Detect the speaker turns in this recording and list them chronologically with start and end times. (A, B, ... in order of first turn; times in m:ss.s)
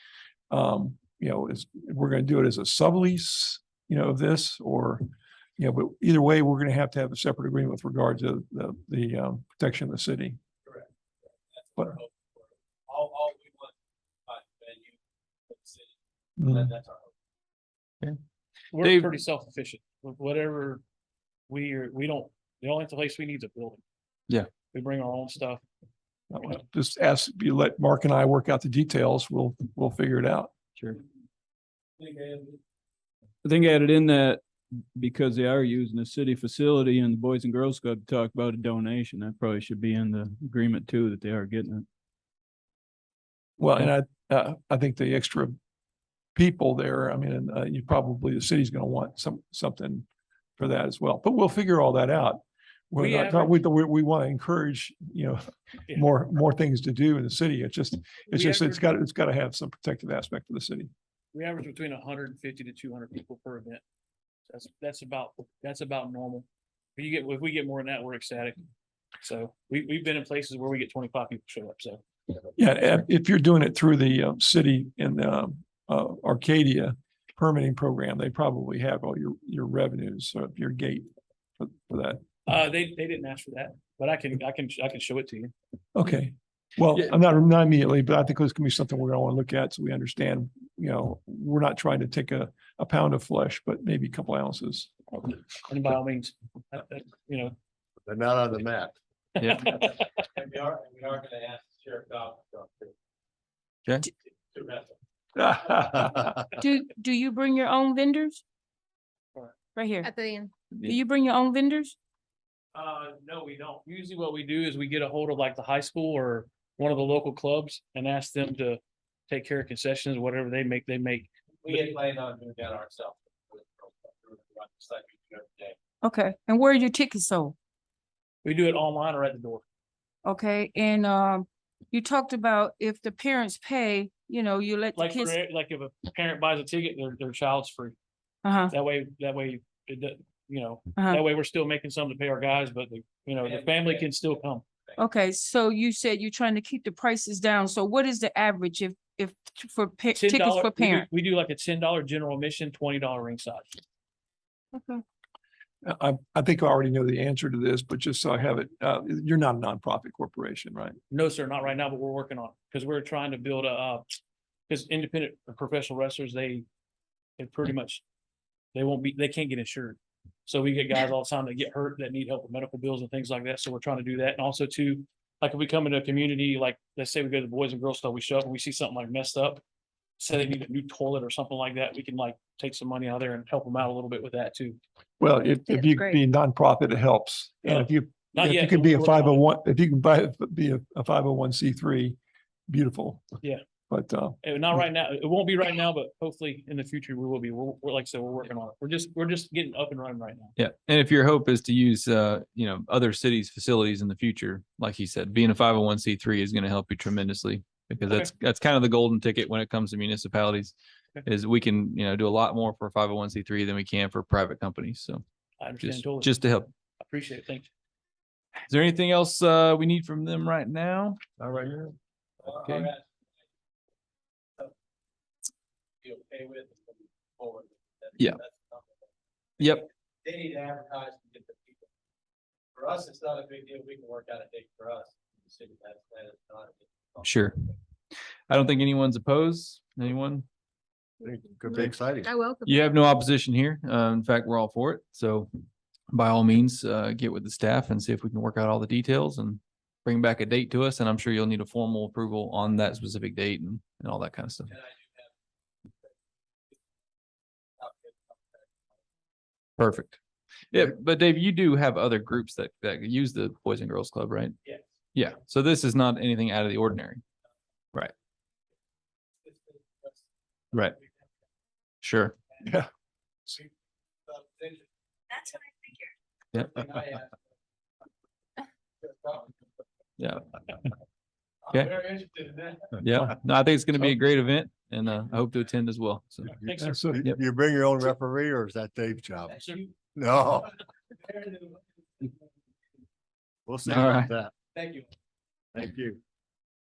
0:00.5-0:05.1 A
0:05.6-0:10.4 A
0:11.5-0:13.8 B
0:14.3-0:17.1 B
0:16.4-0:16.7 A
0:18.7-0:20.8 C
0:18.8-0:19.1 D
0:21.5-0:23.8 C
0:24.7-0:25.6 C
0:26.3-0:30.5 A
0:32.1-0:32.4 B
0:33.4-0:41.9 E
0:43.6-0:45.6 A
0:46.4-0:50.1 A
0:50.6-1:00.9 A
0:53.0-0:53.5 C
0:58.3-0:58.8 C
1:01.3-1:03.8 C
1:04.5-1:08.6 C
1:09.2-1:12.0 C
1:12.6-1:22.2 A
1:22.5-1:25.5 C
1:26.0-1:34.9 A
1:35.1-1:37.5 C
1:38.0-1:38.9 F
1:39.4-1:39.7 D
1:39.6-1:39.9 C
1:39.7-1:42.9 B
1:44.5-1:44.9 B
1:46.6-1:48.4 G
1:49.8-1:50.1 G
1:50.0-1:50.5 H
1:50.8-1:52.0 G
1:52.8-2:01.9 C
2:01.6-2:05.8 B
2:06.0-2:07.6 G
2:08.4-2:09.6 C
2:10.2-2:15.3 G
2:15.0-2:18.0 C
2:18.4-2:18.7 G
2:18.7-2:24.6 C
2:23.4-2:25.0 B
2:25.0-2:31.0 G
2:30.2-2:33.8 C
2:34.7-2:35.0 G
2:35.8-2:41.0 A
2:41.1-2:44.0 C
2:44.7-2:46.6 C
2:47.4-2:48.0 C
2:48.8-2:59.6 C
3:00.2-3:04.8 C
3:05.2-3:12.2 A
3:05.7-3:06.2 H
3:07.6-3:09.4 C
3:12.7-3:13.2 A
3:13.9-3:14.4 A
3:14.4-3:20.5 C
3:20.6-3:30.7 D
3:31.2-3:35.2 D
3:35.6-3:36.3 C
3:35.8-3:36.7 D
3:37.0-3:37.7 C
3:38.7-3:41.2 D
3:41.4-3:41.9 F
3:42.4-3:43.0 B
3:42.5-3:42.9 D
3:46.0-3:49.0 B
3:49.6-3:49.9 D
3:50.2-3:51.8 B
3:52.8-3:57.2 B
3:57.2-3:57.7 D
3:58.5-4:00.5 D
4:01.2-4:02.4 F
4:01.7-4:02.8 H
4:02.6-4:05.5 D
4:06.1-4:14.7 D
4:14.7-4:15.3 B
4:17.8-4:18.8 B
4:19.8-4:20.2 D
4:20.7-4:24.6 D
4:25.2-4:27.2 D
4:29.4-4:30.2 B
4:32.0-4:32.4 D
4:34.3-4:34.9 B
4:35.5-4:35.9 H
4:36.6-4:37.4 B
4:39.0-4:39.6 B
4:41.7-4:43.0 B
4:41.7-4:42.0 D
4:43.0-4:46.6 D
4:46.6-4:47.0 C
4:46.8-4:47.2 A
4:47.1-4:49.6 F
4:49.5-4:50.0 B
4:50.2-4:50.7 F
4:51.2-4:52.4 B
4:53.7-4:54.5 F
4:53.9-4:54.3 D
4:54.8-4:55.1 B
4:55.7-4:56.2 F